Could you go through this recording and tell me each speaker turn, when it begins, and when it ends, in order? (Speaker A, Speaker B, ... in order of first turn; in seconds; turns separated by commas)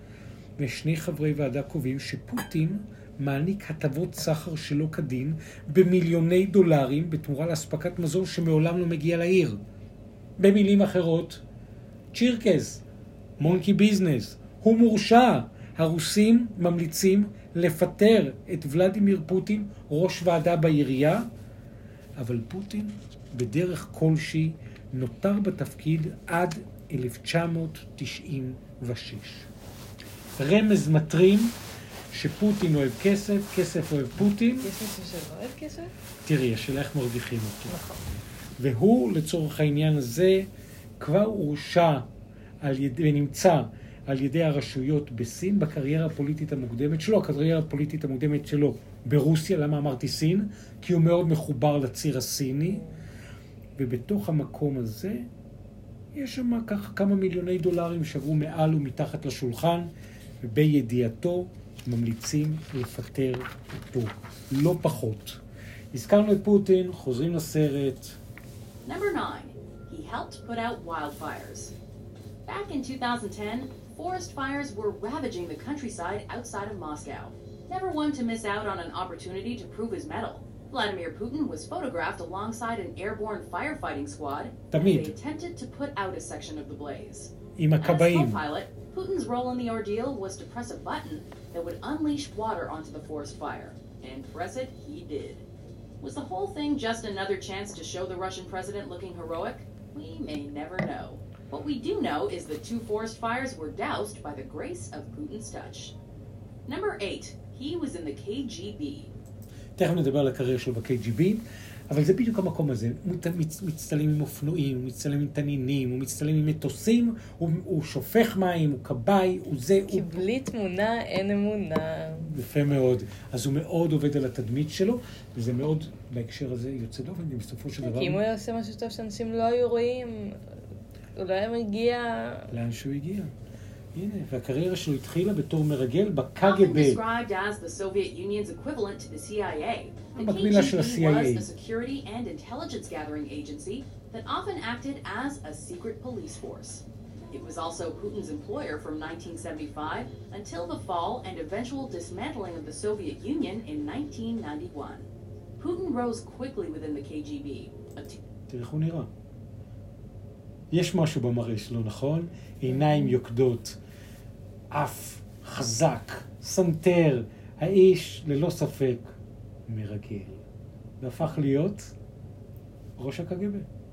Speaker A: 0.6-9.6, Speaker A: 10.4-11.4, Speaker A: 12.1-12.8, Speaker A: 13.4-21.3, Speaker A: 22.1-29.5, Speaker A: 30.4-31.6, Speaker A: 32.1-34.7, Speaker B: 34.6-35.9, Speaker A: 36.2-37.8, Speaker B: 37.7-38.0, Speaker A: 38.6-42.0, Speaker A: 42.6-52.8, Speaker B: 52.7-53.0, Speaker A: 53.8-55.3, Speaker A: 56.1-65.4, Speaker A: 65.9-68.2, Speaker C: 68.8-71.7, Speaker C: 72.5-95.4, Speaker A: 84.7-85.1, Speaker A: 87.6-88.4, Speaker C: 96.0-105.9, Speaker C: 106.7-109.1, Speaker A: 109.8-120.2, Speaker B: 119.9-122.3, Speaker A: 122.2-128.2, Speaker B: 127.8-130.4, Speaker B: 131.2-132.5, Speaker A: 132.5-133.3, Speaker A: 133.9-137.0, Speaker C: 136.4-155.1, Speaker A: 140.2-141.5, Speaker C: 155.6-158.2, Speaker A: 158.5-159.1, Speaker A: 160.7-163.8, Speaker B: 162.7-163.1, Speaker A: 164.7-169.2, Speaker A: 169.7-170.4, Speaker A: 171.0-171.9, Speaker A: 173.0-173.7